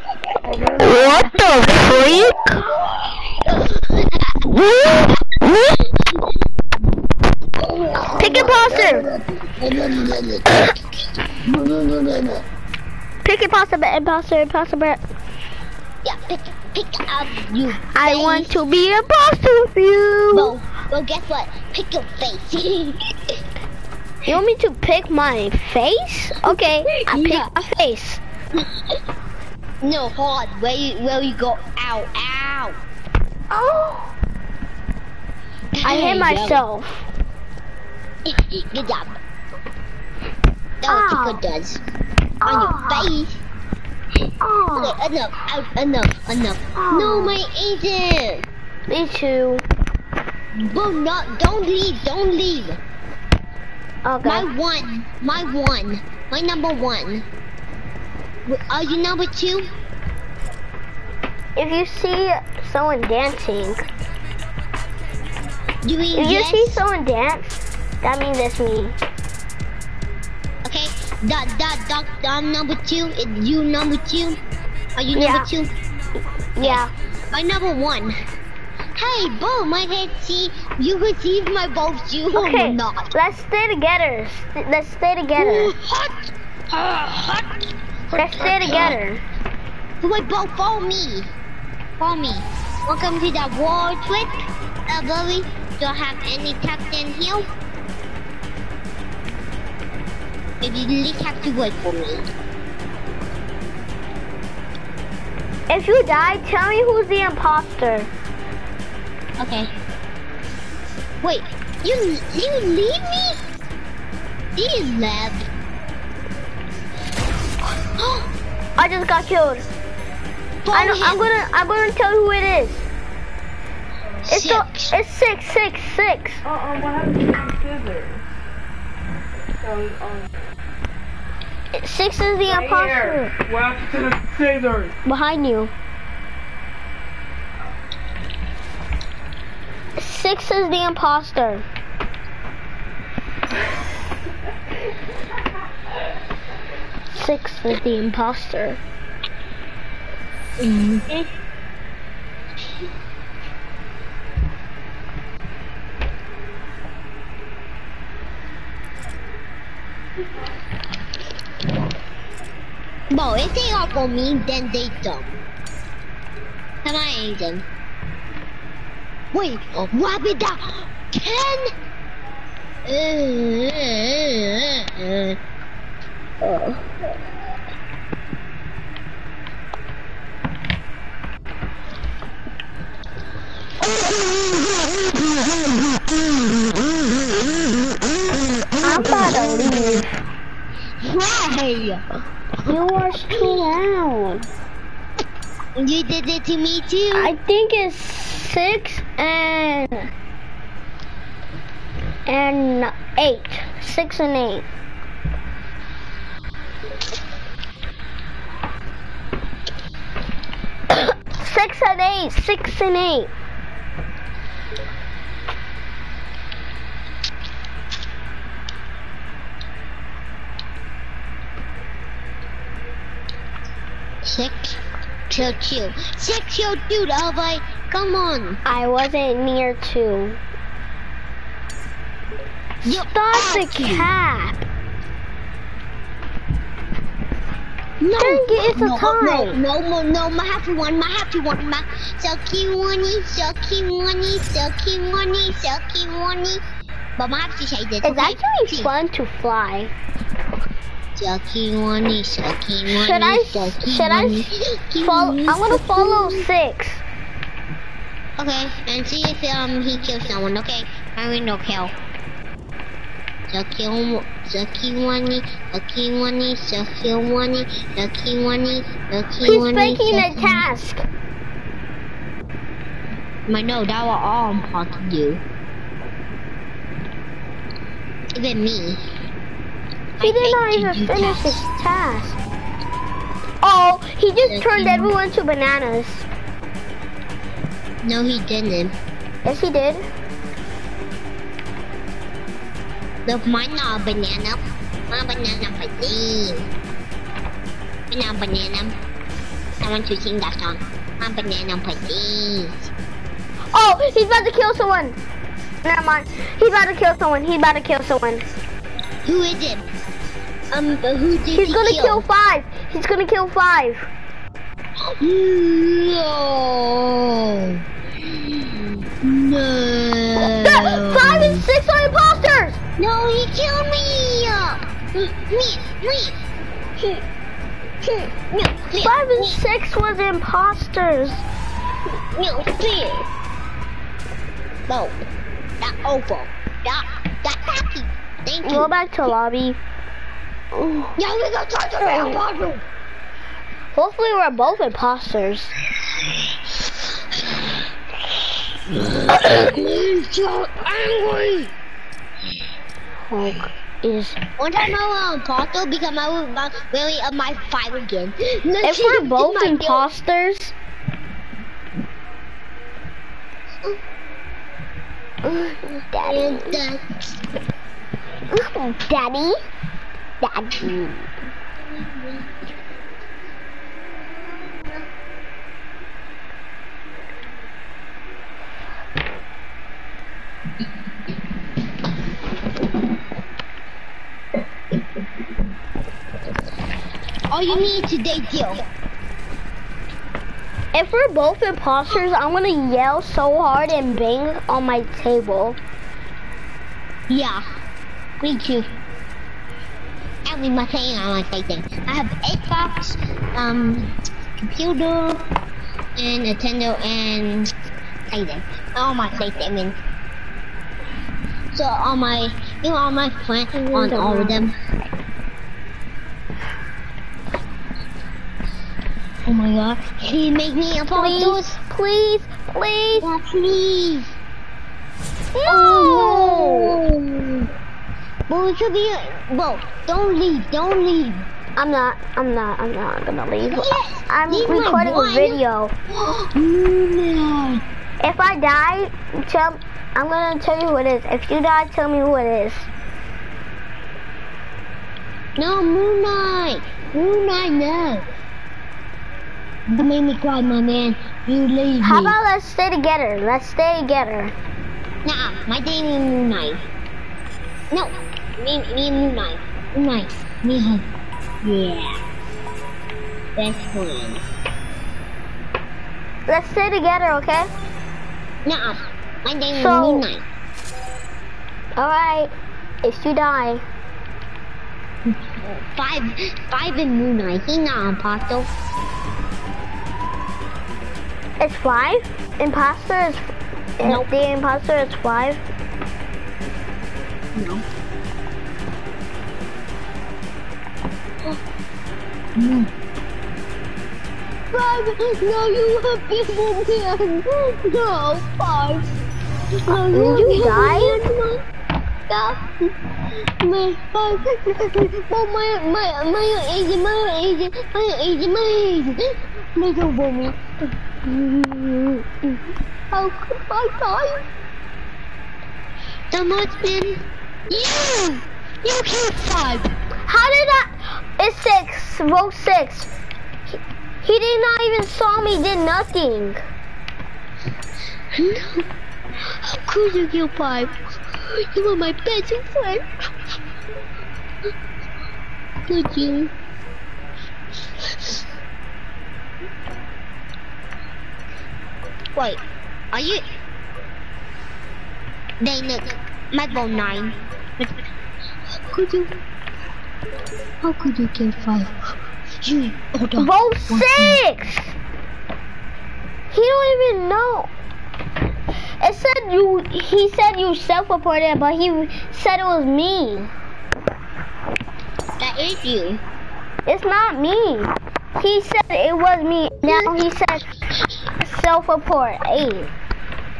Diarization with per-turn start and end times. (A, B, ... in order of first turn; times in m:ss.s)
0:00.8-0:02.6 A
0:07.7-0:08.3 B
0:08.2-0:09.1 A
0:09.6-0:10.4 B
0:11.4-0:12.3 B
0:13.2-0:15.0 A
0:16.0-0:18.6 B
0:17.9-0:20.5 A
0:20.3-0:23.2 B
0:24.3-0:28.2 A
0:26.8-0:27.5 B
0:29.8-0:32.8 B
0:33.5-0:34.1 A
0:35.8-0:36.6 B
0:35.8-0:37.1 A
0:38.2-0:39.1 B
0:40.8-0:41.8 B
0:40.8-0:41.4 A
0:42.4-0:43.1 A
0:42.4-0:43.4 B
0:44.4-0:45.0 A
0:44.8-0:48.4 B
0:46.8-0:47.4 A
0:48.9-0:49.6 A
0:50.5-0:52.8 B
0:54.0-0:54.5 A
0:54.2-0:57.2 B
0:58.4-0:59.7 B
1:01.6-1:03.8 A
1:05.8-1:06.8 B
1:06.1-1:08.9 A
1:10.6-1:14.4 B
1:15.0-1:15.7 B
1:15.1-1:15.5 A
1:16.6-1:16.9 A
1:16.6-1:18.2 B
1:19.0-1:23.1 B
1:22.3-1:25.7 A
1:25.4-1:27.6 B
1:28.1-1:29.0 B
1:28.1-1:29.2 A
1:30.0-1:31.3 B
1:32.0-1:37.5 B
1:40.6-1:42.2 B
1:45.7-1:48.1 A
1:49.4-1:49.7 B
1:51.2-1:53.4 B
1:54.6-1:55.5 B
1:57.9-1:58.3 B
1:58.8-1:59.7 A
2:00.6-2:01.2 B
2:00.7-2:02.8 A
2:04.3-2:05.0 B
2:04.3-2:06.4 A
2:06.4-2:08.2 C
2:09.6-2:10.3 C
2:11.7-2:13.3 A
2:12.4-2:14.9 C
2:15.0-2:15.7 A
2:20.0-2:21.6 A
2:27.1-2:28.8 A
2:30.6-2:31.2 B
2:43.1-2:45.4 B
2:46.8-2:47.6 B
2:49.3-2:51.7 B
2:52.8-2:55.4 B
2:56.4-2:56.8 B
3:08.8-3:10.2 A
3:11.0-3:12.0 B
3:12.7-3:14.5 A
3:15.8-3:17.3 B
3:17.1-3:20.1 A
3:22.3-3:24.6 A
3:30.9-3:33.3 A
3:44.2-3:48.6 B
3:48.6-3:50.4 A
3:52.8-3:54.6 A
3:52.8-3:54.1 B
3:58.0-4:06.6 B
3:58.2-3:59.6 A
4:07.2-4:08.9 B
4:08.0-4:09.9 A
4:11.2-4:16.4 B
4:12.9-4:17.0 A
4:18.4-4:21.9 B
4:23.5-4:30.6 B
4:29.4-4:31.0 A
4:33.5-4:35.4 B
4:38.3-4:39.0 B
4:40.2-4:41.6 B
4:40.2-4:42.4 A
4:43.6-4:46.3 A
4:44.4-4:45.1 B
4:48.0-4:48.9 B
4:49.4-4:50.0 A
4:53.2-4:56.7 B
4:58.1-4:59.0 B
4:59.8-5:02.9 B
5:03.7-5:05.2 A
5:05.8-5:08.4 A
5:09.2-5:09.9 B
5:10.7-5:12.2 B
5:11.5-5:14.1 A
5:15.1-5:21.6 B
5:20.4-5:22.8 A
5:23.0-5:26.4 B
5:28.0-5:29.6 B
5:29.0-5:31.4 A
5:32.3-5:33.3 B
5:34.9-5:35.2 B
5:35.8-5:38.9 B
5:38.6-5:39.8 A
5:40.7-5:41.1 A
5:41.2-5:42.8 B
5:43.9-5:45.7 A
5:49.0-5:51.7 B
5:53.3-5:54.4 A
5:54.6-6:00.1 B
5:58.8-6:00.7 A
6:05.4-6:06.8 A
6:06.2-6:07.2 B
6:08.5-6:09.6 A
6:10.4-6:11.3 A
6:11.9-6:12.4 B
6:27.5-6:28.8 B
6:30.9-6:35.8 A
6:37.3-6:37.6 B
6:38.4-6:39.0 B
6:40.5-6:45.4 B
6:46.2-6:47.7 B
6:48.3-6:50.0 B
6:51.7-6:54.7 B
6:53.7-6:54.7 A
6:59.4-7:01.7 B
7:01.1-7:03.3 A
7:03.2-7:04.3 B
7:05.5-7:07.0 A
7:05.6-7:07.7 B
7:08.5-7:11.5 B
7:11.8-7:15.9 A
7:13.6-7:15.6 B
7:16.1-7:17.8 B
7:18.2-7:22.9 A
7:25.6-7:28.3 B
7:29.9-7:32.4 B
7:32.0-7:34.5 A
7:35.2-7:36.8 B
7:37.9-7:41.1 B
7:41.6-7:42.2 B
7:43.6-7:44.4 B
7:46.5-7:47.7 A
7:48.6-7:50.4 B
7:49.7-7:50.3 A
7:52.0-7:52.5 A
7:53.0-7:53.8 A
7:55.3-7:58.7 B
8:01.6-8:05.6 A
8:07.5-8:07.8 B
8:12.6-8:12.9 B
8:14.7-8:19.1 B
8:19.7-8:21.6 B
8:19.9-8:21.3 A
8:22.3-8:30.6 B
8:31.2-8:32.6 A
8:33.1-8:34.4 B
8:36.3-8:39.9 B
8:40.3-8:43.1 A
8:44.2-8:46.6 A
8:48.3-8:48.8 B
8:49.4-8:53.1 B
8:55.9-8:56.5 B
9:03.1-9:03.4 B
9:05.6-9:08.0 B
9:08.7-9:09.4 B
9:10.8-9:12.0 B
9:12.6-9:14.4 B
9:13.4-9:14.9 A
9:16.5-9:17.7 A
9:19.0-9:23.5 A
9:25.4-9:26.2 B
9:26.8-9:30.7 A
9:29.9-9:30.2 B
9:31.4-9:32.9 A